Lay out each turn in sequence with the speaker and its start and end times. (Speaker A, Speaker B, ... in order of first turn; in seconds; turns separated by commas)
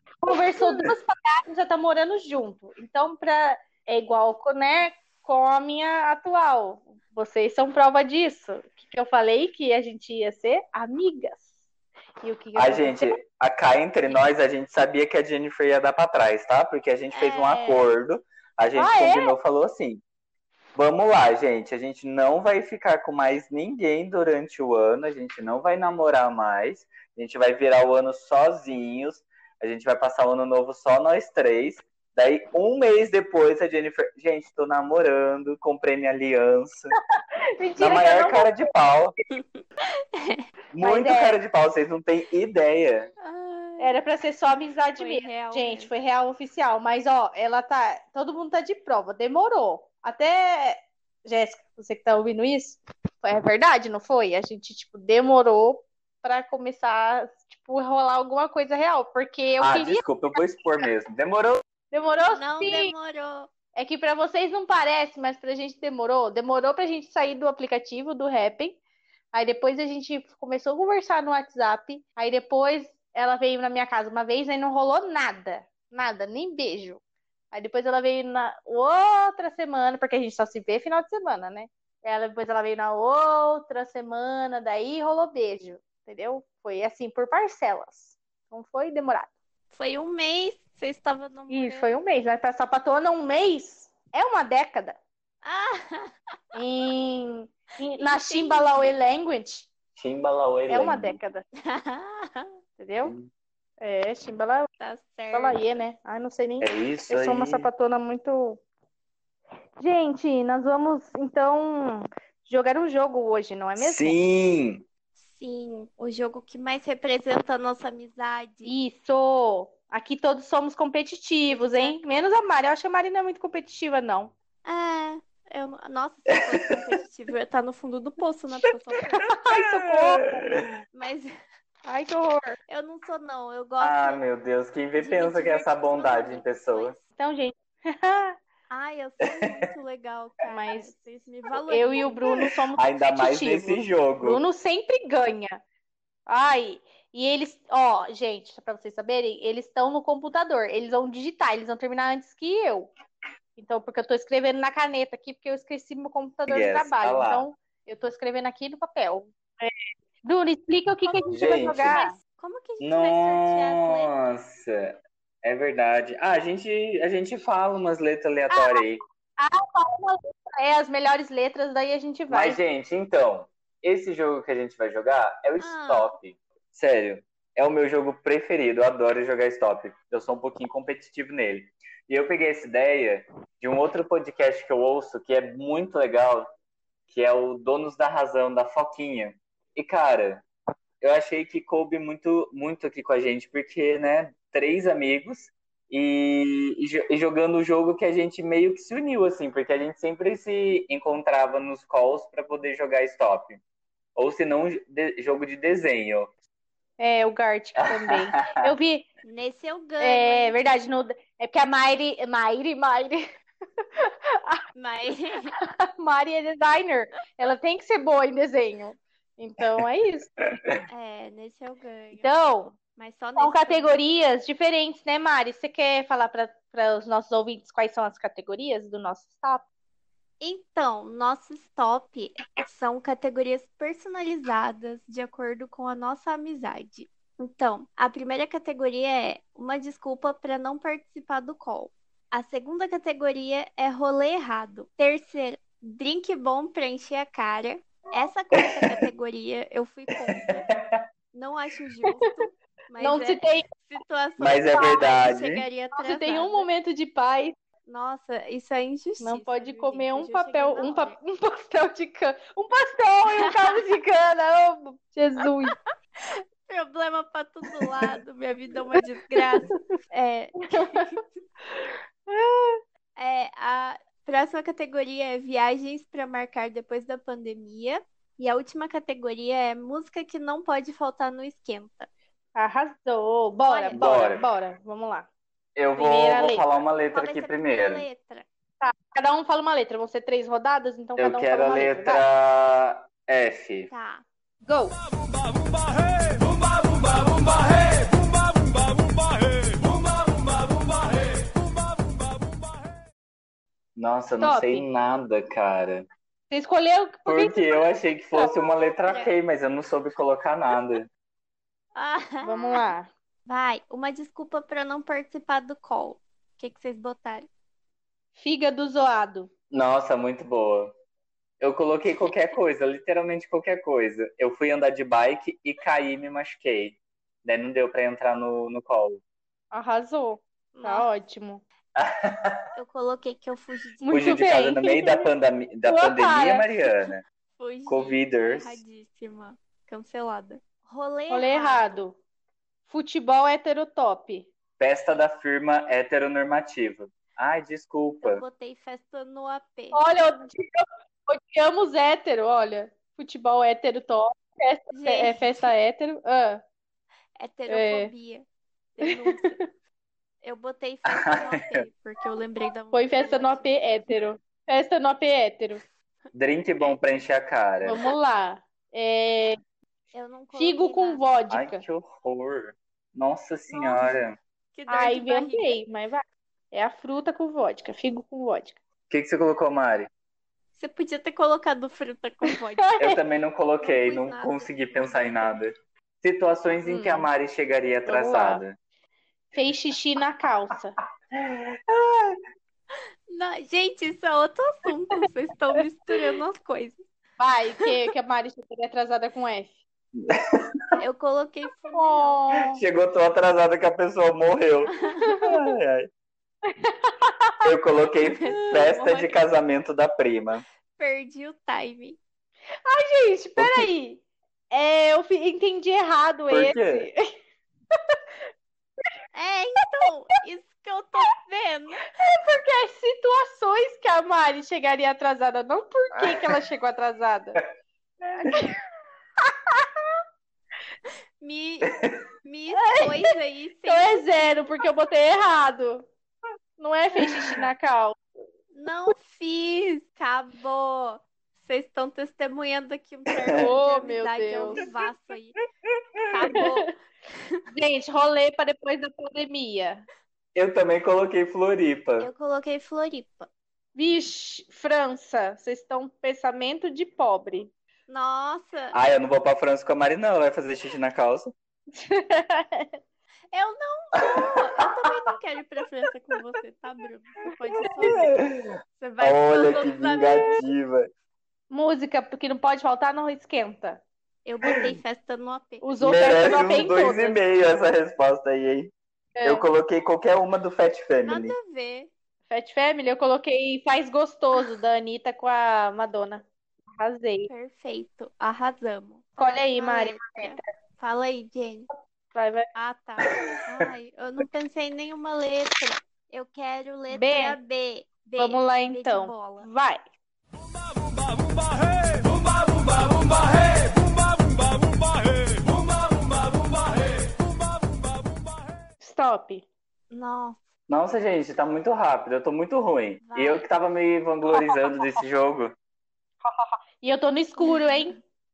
Speaker A: 0.2-11.4, Speaker B: 0.6-0.9, Speaker A: 12.2-13.2, Speaker B: 12.6-20.0, Speaker C: 17.1-17.9, Speaker A: 18.8-19.3, Speaker B: 20.8-37.0, Speaker A: 37.6-38.5, Speaker B: 37.8-39.2, Speaker C: 40.0-40.5, Speaker B: 40.7-43.1, Speaker A: 40.8-41.4, Speaker C: 43.2-44.0, Speaker A: 43.8-60.0, Speaker C: 45.0-45.9, Speaker B: 59.6-61.6, Speaker A: 61.9-62.9, Speaker C: 62.3-63.5, Speaker A: 63.8-68.8, Speaker A: 69.3-77.0, Speaker A: 77.5-89.3, Speaker C: 89.7-91.9, Speaker A: 91.5-95.0, Speaker C: 95.4-96.4, Speaker A: 96.5-99.7, Speaker C: 98.0-98.9, Speaker B: 100.0-101.2, Speaker A: 100.7-101.4, Speaker C: 101.6-102.5, Speaker A: 102.8-103.1, Speaker B: 103.0-103.3, Speaker A: 103.8-104.7, Speaker C: 104.8-105.6, Speaker A: 105.3-108.6, Speaker B: 106.6-107.7, Speaker A: 109.8-114.2, Speaker B: 113.8-114.8, Speaker C: 115.2-118.7, Speaker A: 118.7-124.3, Speaker C: 121.5-122.0, Speaker C: 124.7-129.3, Speaker B: 126.3-126.8, Speaker A: 129.1-130.5, Speaker B: 129.3-130.7, Speaker C: 130.9-131.3, Speaker A: 131.8-132.6, Speaker C: 132.7-134.2, Speaker B: 133.8-136.9, Speaker C: 135.0-137.1, Speaker A: 137.2-138.4, Speaker C: 138.7-142.5, Speaker B: 139.3-139.7, Speaker A: 140.5-140.9, Speaker A: 141.7-145.6, Speaker B: 142.8-144.4, Speaker A: 146.3-152.9, Speaker A: 153.6-162.2, Speaker B: 156.5-157.5, Speaker C: 161.1-164.1, Speaker B: 161.3-162.0, Speaker B: 162.8-169.0, Speaker A: 168.5-168.9, Speaker A: 169.4-172.6, Speaker B: 172.3-186.5, Speaker C: 175.6-176.1, Speaker B: 187.1-190.4, Speaker B: 191.0-203.6, Speaker B: 204.2-206.3, Speaker A: 207.0-209.1, Speaker B: 207.8-208.7, Speaker C: 209.2-210.6, Speaker A: 210.0-213.2, Speaker A: 214.0-214.6, Speaker C: 214.8-215.6, Speaker A: 215.8-220.3, Speaker C: 220.9-222.3, Speaker A: 222.2-222.8, Speaker C: 223.0-224.0, Speaker A: 223.4-229.7, Speaker C: 230.4-250.7, Speaker B: 250.2-251.0, Speaker C: 251.3-256.7, Speaker A: 253.0-253.7, Speaker B: 254.4-255.7, Speaker A: 256.0-257.6, Speaker C: 257.9-261.1, Speaker A: 259.2-265.8, Speaker C: 263.4-263.8, Speaker C: 265.7-271.2, Speaker A: 267.8-268.1, Speaker A: 269.4-269.7, Speaker A: 270.7-271.1, Speaker A: 272.3-272.8, Speaker C: 273.2-282.1, Speaker A: 282.6-285.3, Speaker C: 283.6-284.1, Speaker B: 283.9-284.4, Speaker B: 285.8-288.1, Speaker A: 286.0-286.6, Speaker C: 287.1-288.5, Speaker A: 288.8-292.2, Speaker B: 291.2-293.9, Speaker C: 293.9-294.2, Speaker A: 294.6-295.0, Speaker B: 304.0-306.1, Speaker A: 304.4-304.9, Speaker A: 306.5-308.6, Speaker B: 307.3-311.1, Speaker C: 311.9-312.9, Speaker A: 312.4-313.1, Speaker C: 313.5-317.5, Speaker A: 318.4-319.5, Speaker B: 319.7-320.9, Speaker B: 321.6-329.2, Speaker A: 329.7-331.6, Speaker C: 330.7-331.1, Speaker B: 332.0-332.6, Speaker C: 332.8-334.3, Speaker A: 334.0-335.3, Speaker B: 334.1-337.2, Speaker A: 335.9-336.7, Speaker C: 337.6-342.0, Speaker B: 337.9-338.8, Speaker A: 341.3-342.2, Speaker A: 342.9-344.5, Speaker B: 344.8-348.4, Speaker C: 348.2-350.0, Speaker A: 349.9-356.6, Speaker C: 354.9-355.7, Speaker C: 357.4-359.6, Speaker A: 357.7-358.1, Speaker C: 360.4-364.1, Speaker B: 361.1-361.8, Speaker A: 362.9-365.8, Speaker B: 366.3-367.9, Speaker A: 367.9-369.6, Speaker C: 370.1-371.3, Speaker A: 370.5-371.8, Speaker B: 371.5-374.4, Speaker C: 373.7-374.0, Speaker C: 374.7-375.8, Speaker A: 374.9-378.8, Speaker B: 379.1-380.1, Speaker C: 380.8-383.0, Speaker A: 382.5-383.2, Speaker B: 383.0-388.8, Speaker C: 383.8-385.5, Speaker A: 386.9-387.3, Speaker A: 388.1-388.6, Speaker A: 389.5-390.9, Speaker B: 391.3-392.4, Speaker C: 393.3-397.0, Speaker A: 397.4-399.8, Speaker B: 400.2-400.7, Speaker C: 401.0-402.6, Speaker A: 401.9-402.8, Speaker B: 402.7-406.1, Speaker C: 404.9-405.4, Speaker A: 405.2-405.6, Speaker A: 406.7-407.6, Speaker B: 407.6-410.6, Speaker C: 408.4-409.4, Speaker C: 411.0-412.2, Speaker A: 412.9-417.2, Speaker B: 413.6-413.9, Speaker B: 416.5-417.1, Speaker A: 417.9-418.2, Speaker C: 419.3-422.1, Speaker A: 422.1-427.6, Speaker A: 428.4-428.7, Speaker A: 429.4-430.1, Speaker C: 431.4-431.9, Speaker B: 431.8-432.2, Speaker C: 432.4-434.8, Speaker A: 432.8-433.3, Speaker A: 433.9-436.1, Speaker A: 436.8-438.2, Speaker C: 438.7-445.6, Speaker B: 443.3-443.7, Speaker A: 443.6-444.9, Speaker B: 446.2-446.6, Speaker C: 446.3-447.6, Speaker A: 446.5-446.9, Speaker A: 447.7-450.1, Speaker B: 450.6-452.3, Speaker C: 452.2-453.5, Speaker A: 453.9-457.7, Speaker C: 458.1-458.9, Speaker B: 458.9-461.5, Speaker A: 461.9-463.0, Speaker C: 463.5-468.4, Speaker B: 464.2-464.5, Speaker B: 468.0-471.1, Speaker C: 469.0-470.6, Speaker A: 471.7-474.0, Speaker C: 474.4-477.2, Speaker A: 475.8-477.4, Speaker B: 476.0-478.9, Speaker A: 479.4-479.6, Speaker B: 479.4-481.6, Speaker C: 481.3-482.1, Speaker A: 482.5-486.4, Speaker A: 487.0-487.5, Speaker C: 487.5-491.9, Speaker A: 489.4-490.6, Speaker A: 492.3-492.7, Speaker C: 492.8-499.7, Speaker B: 493.2-493.9, Speaker A: 497.1-497.6, Speaker A: 498.4-500.0, Speaker A: 509.0-509.6, Speaker C: 510.1-510.6, Speaker B: 510.9-515.7, Speaker C: 513.2-513.7, Speaker A: 514.5-514.8, Speaker A: 516.4-518.1, Speaker C: 517.6-518.2